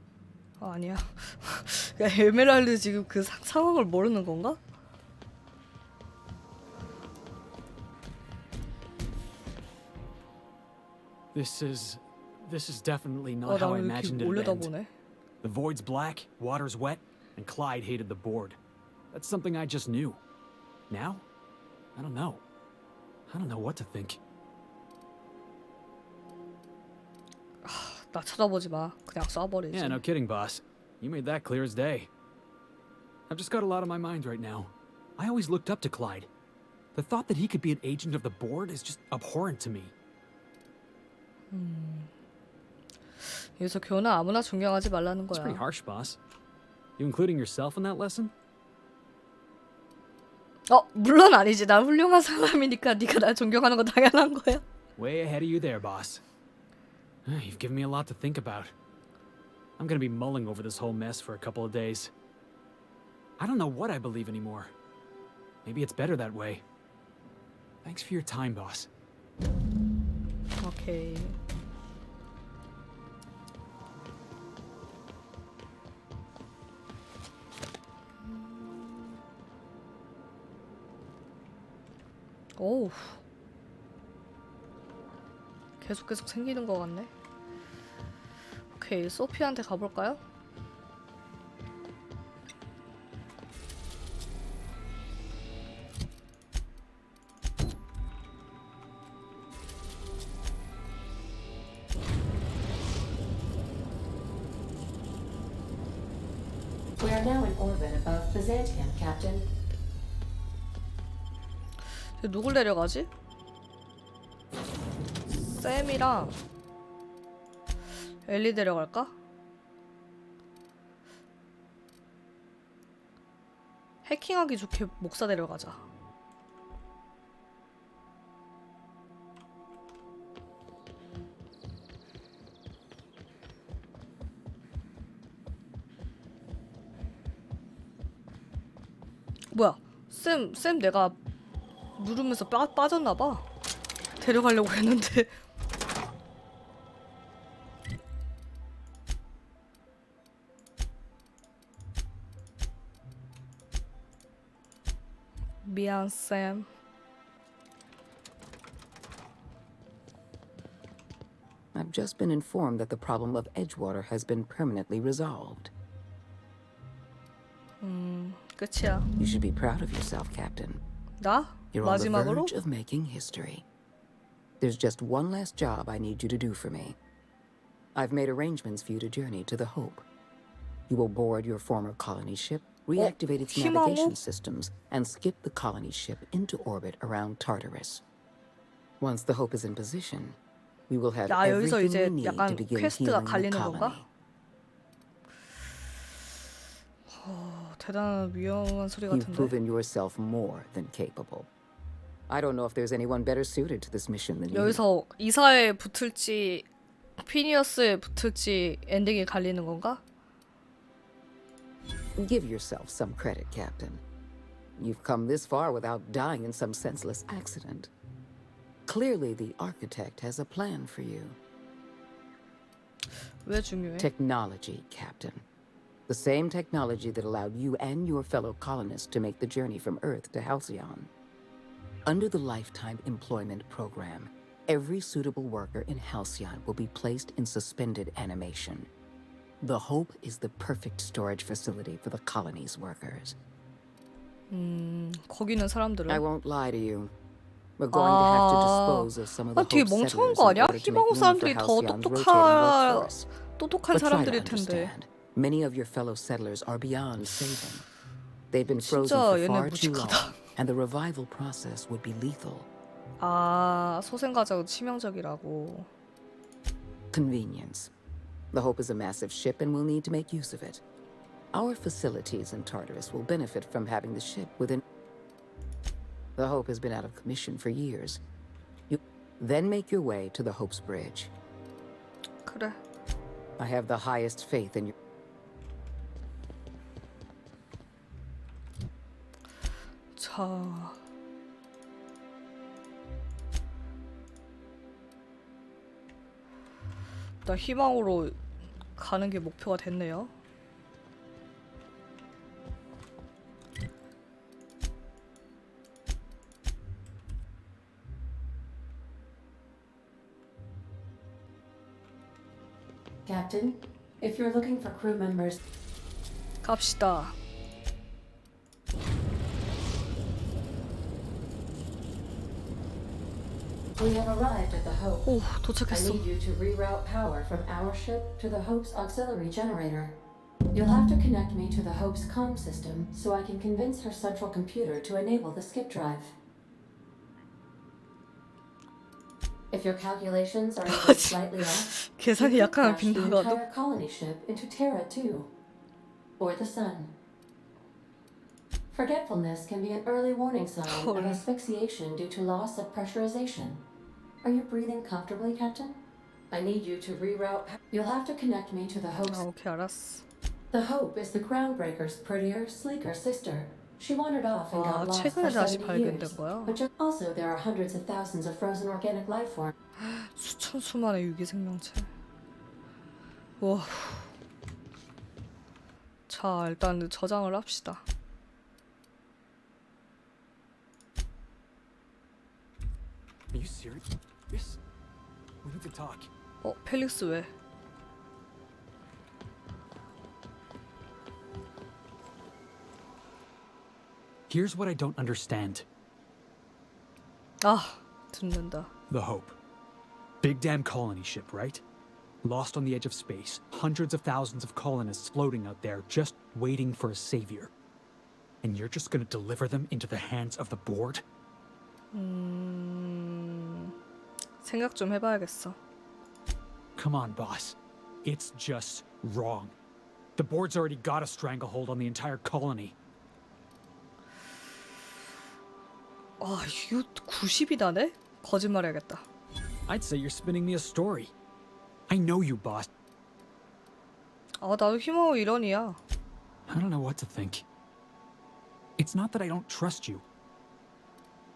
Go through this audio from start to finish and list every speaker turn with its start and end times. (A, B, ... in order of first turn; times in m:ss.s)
0:00.6-0:04.6 A
0:11.3-0:14.7 B
0:13.4-0:14.9 A
0:15.4-0:18.6 B
0:19.1-0:20.2 B
0:20.9-0:21.2 B
0:22.0-0:22.4 B
0:23.3-0:24.2 B
0:27.6-0:30.0 A
0:29.7-0:32.1 B
0:33.3-0:36.3 B
0:36.9-0:39.9 B
0:41.5-0:42.1 A
0:43.3-0:45.6 A
0:45.3-0:46.2 B
0:47.0-0:48.3 B
0:50.7-0:54.6 A
0:55.0-0:56.2 B
0:57.3-0:58.7 B
0:59.8-1:02.1 B
1:03.4-1:04.7 B
1:05.6-1:06.6 B
1:07.8-1:08.9 B
1:10.6-1:11.4 A
1:18.2-1:19.2 A
1:22.6-1:23.2 A
1:25.8-1:27.1 A
1:28.8-1:30.2 A
1:47.0-1:49.5 C
1:52.2-1:53.1 A
1:55.3-1:56.4 A
1:58.3-1:59.1 A
2:04.0-2:05.8 A
2:19.5-2:21.2 A
2:22.0-2:23.5 A
2:24.2-2:25.3 A
2:35.6-2:36.7 A
2:41.7-2:45.7 D
2:47.8-2:49.1 A
2:49.2-2:50.8 D
2:51.2-2:52.5 A
2:51.7-2:53.6 D
2:54.6-2:57.0 D
2:58.0-3:00.0 D
3:00.9-3:08.0 D
3:03.0-3:04.2 A
3:09.0-3:10.4 D
3:10.9-3:14.0 D
3:11.3-3:14.0 A
3:17.1-3:19.5 A
3:19.1-3:21.5 D
3:22.3-3:24.8 D
3:24.5-3:26.7 A
3:27.2-3:30.0 A
3:32.2-3:34.0 D
3:34.8-3:37.9 D
3:38.9-3:41.4 D
3:43.5-3:44.1 A
3:44.0-3:45.4 D
3:46.1-3:51.1 D
3:52.0-3:58.9 D
3:59.6-4:03.4 D
4:04.5-4:06.2 A
4:06.1-4:07.1 D
4:07.8-4:13.3 D
4:07.9-4:14.9 A
4:13.9-4:17.8 D
4:18.5-4:22.7 D
4:18.8-4:20.4 A
4:23.2-4:25.9 A
4:27.1-4:27.9 D
4:28.5-4:30.8 D
4:31.5-4:34.8 D
4:36.4-4:38.2 D
4:38.9-4:41.3 D
4:42.5-4:42.8 A
4:43.6-4:44.9 D
4:50.2-4:51.0 A
4:57.4-4:58.4 A
4:59.0-5:00.3 A
5:13.3-5:15.6 C
5:16.6-5:17.4 A
5:24.0-5:25.3 C
5:25.3-5:26.2 A
5:25.9-5:30.2 C
5:30.7-5:36.3 C
5:39.7-5:45.5 C
5:40.9-5:43.6 A
5:46.4-5:47.1 C
5:48.9-5:53.8 C
5:50.9-5:51.4 A
5:54.4-5:56.0 C
5:56.5-5:59.4 C
5:59.3-6:00.2 A
6:00.7-6:09.7 C
6:04.7-6:06.8 A
6:10.0-6:12.1 A
6:13.6-6:14.3 A
6:16.3-6:18.0 A
6:23.5-6:24.8 B
6:25.6-6:26.3 B
6:26.6-6:27.5 A
6:34.5-6:35.8 B
6:37.6-6:38.9 A
6:39.1-6:39.6 B
6:40.4-6:41.8 B
6:42.4-6:47.7 B
6:48.6-6:51.2 B
6:52.1-6:53.9 A
6:54.6-6:55.8 A
6:57.0-6:59.7 B
7:00.4-7:02.9 B
7:06.4-7:09.2 A
7:09.9-7:11.3 B
7:12.1-7:12.9 B
7:14.6-7:16.0 A
7:16.7-7:17.6 B
7:19.0-7:20.2 B